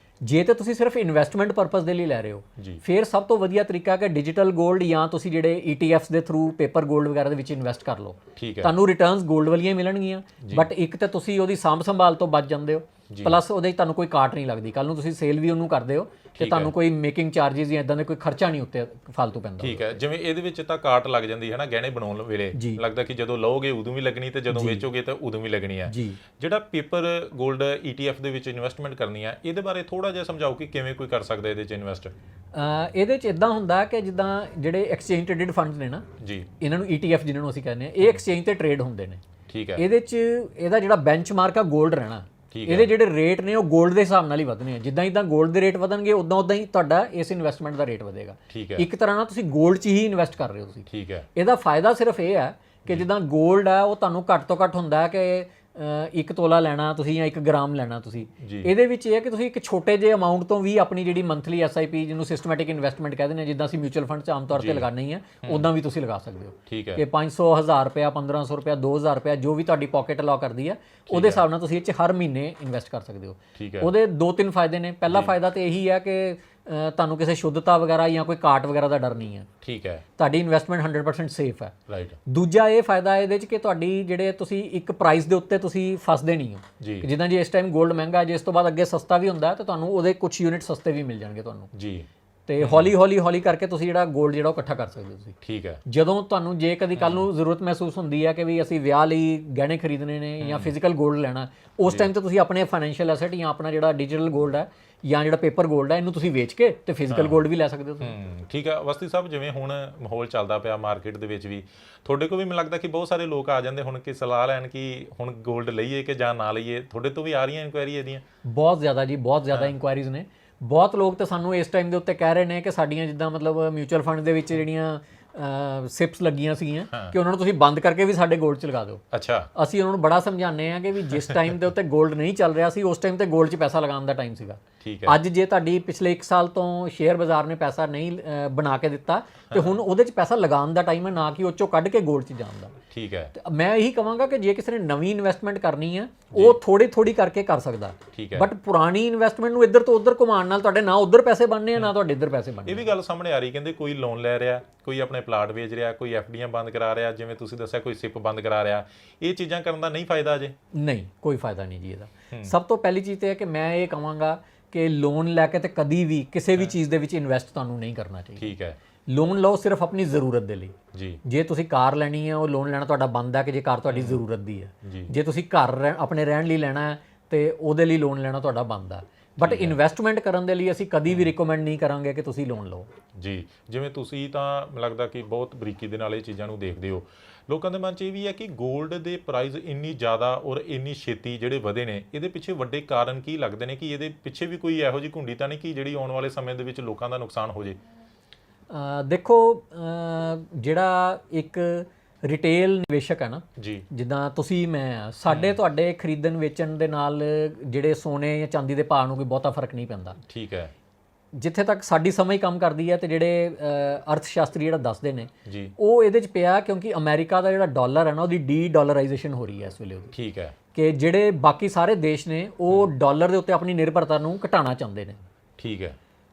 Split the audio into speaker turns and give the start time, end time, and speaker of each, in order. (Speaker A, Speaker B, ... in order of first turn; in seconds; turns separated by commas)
Speaker A: 0.2-20.0, Speaker B: 2.6-2.8, Speaker B: 8.3-8.7, Speaker B: 10.4-10.7, Speaker B: 13.1-13.4, Speaker B: 16.4-16.7, Speaker B: 19.6-32.1, Speaker A: 22.5-22.8, Speaker A: 24.5-24.9, Speaker A: 25.9-26.2, Speaker A: 32.5-36.0, Speaker B: 36.2-36.5, Speaker A: 36.6-39.2, Speaker B: 39.5-39.9, Speaker A: 39.8-79.5, Speaker B: 42.5-42.9, Speaker B: 48.5-48.9, Speaker B: 50.9-51.3, Speaker B: 58.4-58.7, Speaker B: 64.5-64.9, Speaker B: 65.4-65.7, Speaker B: 66.7-67.0, Speaker B: 71.1-71.4, Speaker B: 73.5-73.9, Speaker B: 79.6-80.0, Speaker A: 80.2-81.7, Speaker B: 81.9-82.2, Speaker A: 82.2-91.7, Speaker B: 86.8-87.1, Speaker B: 91.7-92.1, Speaker A: 92.5-108.1, Speaker B: 92.6-92.9, Speaker B: 95.4-95.8, Speaker B: 97.0-97.2, Speaker B: 100.4-100.7, Speaker B: 107.1-107.4, Speaker B: 108.0-118.2, Speaker A: 118.4-129.0, Speaker B: 126.9-127.2, Speaker B: 129.1-129.5, Speaker A: 129.6-142.8, Speaker B: 134.8-135.2, Speaker B: 142.9-143.3, Speaker A: 143.3-152.9, Speaker B: 146.3-146.6, Speaker B: 148.1-148.5, Speaker B: 152.6-160.5, Speaker A: 160.7-168.5, Speaker B: 168.4-168.8, Speaker A: 169.1-182.9, Speaker B: 170.9-171.2, Speaker B: 173.9-174.2, Speaker B: 174.8-175.1, Speaker B: 179.4-179.8, Speaker B: 183.1-197.8, Speaker A: 198.7-210.2, Speaker B: 203.6-203.8, Speaker B: 205.3-205.6, Speaker B: 210.3-210.7, Speaker A: 211.3-220.1, Speaker B: 215.4-215.7, Speaker B: 220.1-220.5, Speaker A: 220.7-225.2, Speaker B: 225.6-226.0